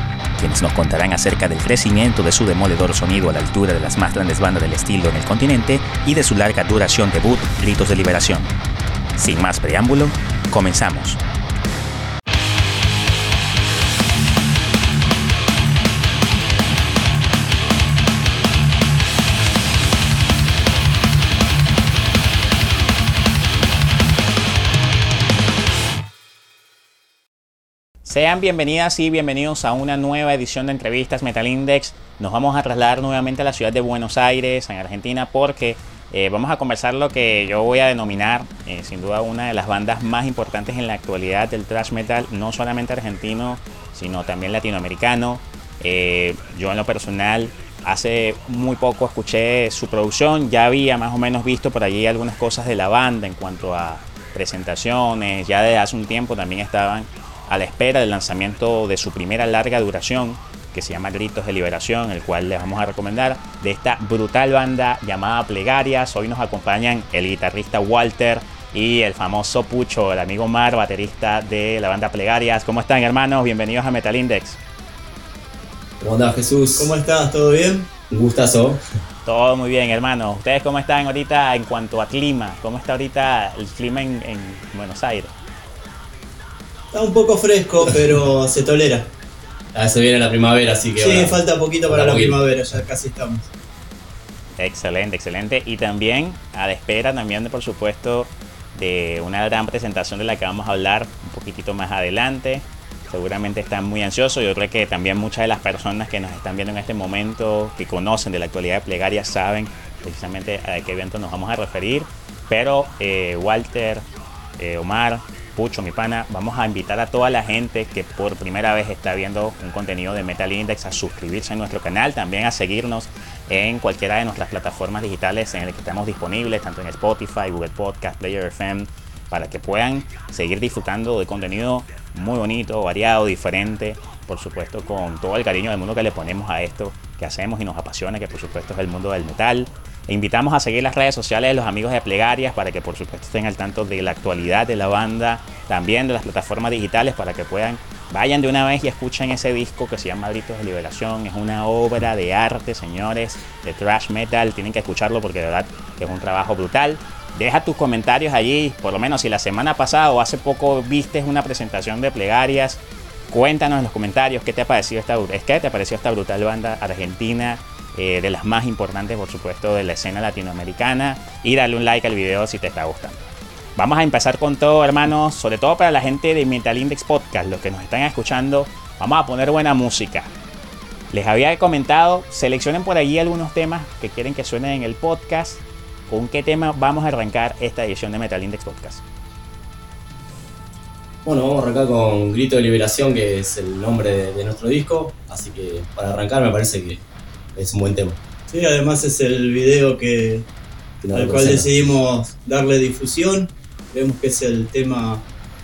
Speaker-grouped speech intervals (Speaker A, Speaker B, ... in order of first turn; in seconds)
Speaker A: 0.4-8.5, 9.2-11.2, 28.0-74.6, 79.2-85.3, 94.6-114.0, 114.6-180.3, 181.1-189.0
Speaker B: 76.0-76.9, 78.1-78.8, 89.7-92.4, 191.2-197.0, 197.5-198.2, 201.0-201.8
Speaker C: 76.8-77.9, 86.9-89.1, 91.0-93.5, 198.5-200.4, 201.1-205.2